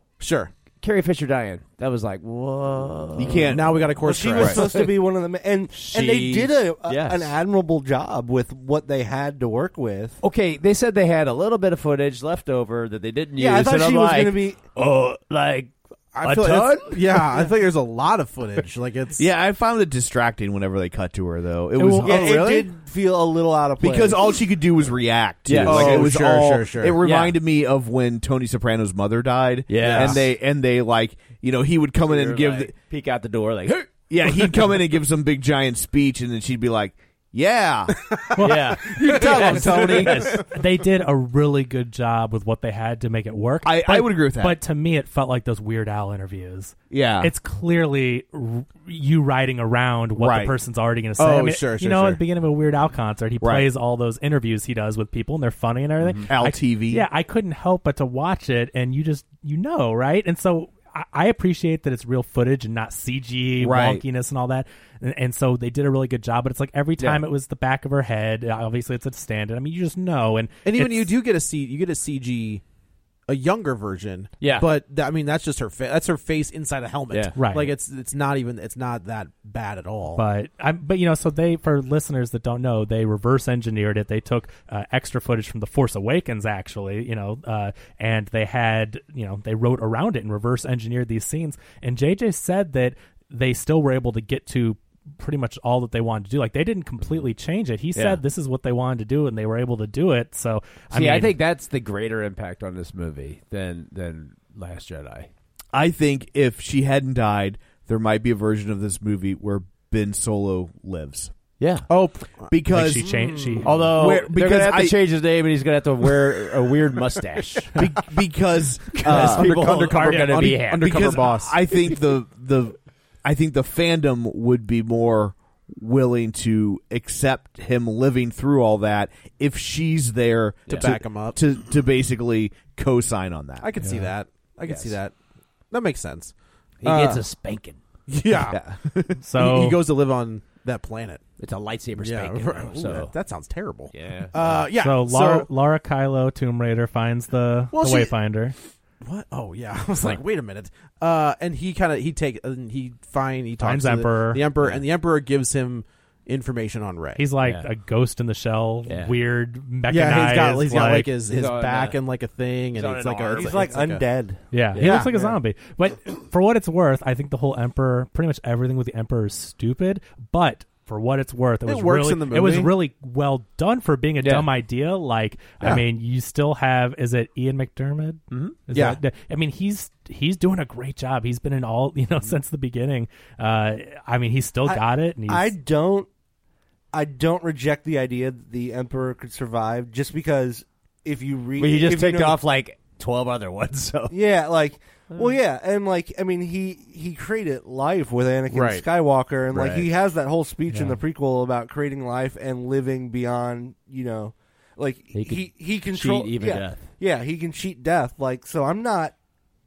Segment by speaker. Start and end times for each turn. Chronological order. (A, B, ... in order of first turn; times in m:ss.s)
0:00.2-0:00.5 A
0:00.8-0:03.6 B
0:03.2-0:04.6 C
0:03.5-0:04.8 A
0:04.0-0:10.2 D
0:04.4-0:04.9 B
0:05.7-0:07.3 B
0:10.2-0:17.4 B
0:13.3-0:14.6 D
0:16.1-0:19.2 A
0:19.2-0:22.7 C
0:21.7-0:22.1 E
0:22.0-0:24.4 D
0:23.8-0:32.7 C
0:25.4-0:26.1 B
0:25.6-0:27.0 A
0:27.0-0:27.4 B
0:29.7-0:30.2 B
0:29.8-0:30.3 A
0:32.0-0:34.6 B
0:34.1-0:38.2 C
0:38.3-0:38.6 E
0:38.4-0:40.4 B
0:39.0-0:40.2 C
0:39.0-0:40.4 A
0:40.4-1:11.1 E
0:43.6-0:44.6 C
0:46.9-0:47.3 C
0:50.2-0:50.6 C
0:51.2-0:52.2 A
0:53.4-0:53.6 C
0:56.2-0:57.0 C
1:03.6-1:04.0 C
1:07.0-1:07.2 B
1:10.6-1:12.6 A
1:13.3-1:20.2 A
1:14.4-1:14.7 B
1:17.4-1:17.7 E
1:20.2-1:41.3 E
1:37.9-1:38.2 B
1:40.9-1:45.3 B
1:45.7-1:51.3 C
1:51.6-1:51.9 B
1:51.9-1:52.6 A
1:52.5-1:55.0 C
1:52.7-1:54.0 E
1:53.5-1:57.8 B
1:57.8-2:13.7 C
1:59.0-2:01.2 B
1:59.0-2:01.6 A
2:10.7-2:11.4 A
2:13.6-2:15.1 A
2:13.8-2:14.1 E
2:14.6-2:15.0 B
2:15.7-2:17.2 A
2:16.8-2:17.8 B
2:18.1-2:18.6 A
2:18.5-2:18.8 B
2:19.1-2:21.2 A
2:19.2-2:19.8 E
2:21.4-2:23.1 B
2:22.0-2:25.5 A
2:23.9-2:24.6 B
2:24.8-2:28.6 E
2:27.7-2:28.1 A
2:29.0-2:37.2 A
2:33.6-2:34.5 E
2:37.2-2:41.1 E
2:37.4-2:37.7 B
2:38.9-2:39.1 B
2:39.9-2:44.0 A
2:41.3-2:42.0 B
2:42.7-2:43.8 B
2:43.3-2:44.4 D
2:44.5-3:05.5 E
2:44.7-2:45.3 B
2:44.8-2:45.1 A
2:51.6-2:52.7 A
2:54.2-2:54.5 B
2:58.3-2:58.6 B
2:58.7-2:59.0 A
3:04.6-3:06.1 D
3:06.9-3:12.4 D
3:11.6-3:14.1 B
3:14.1-3:29.1 D
3:18.5-3:18.8 A
3:19.5-3:19.8 B
3:20.7-3:21.0 E
3:25.1-3:26.8 B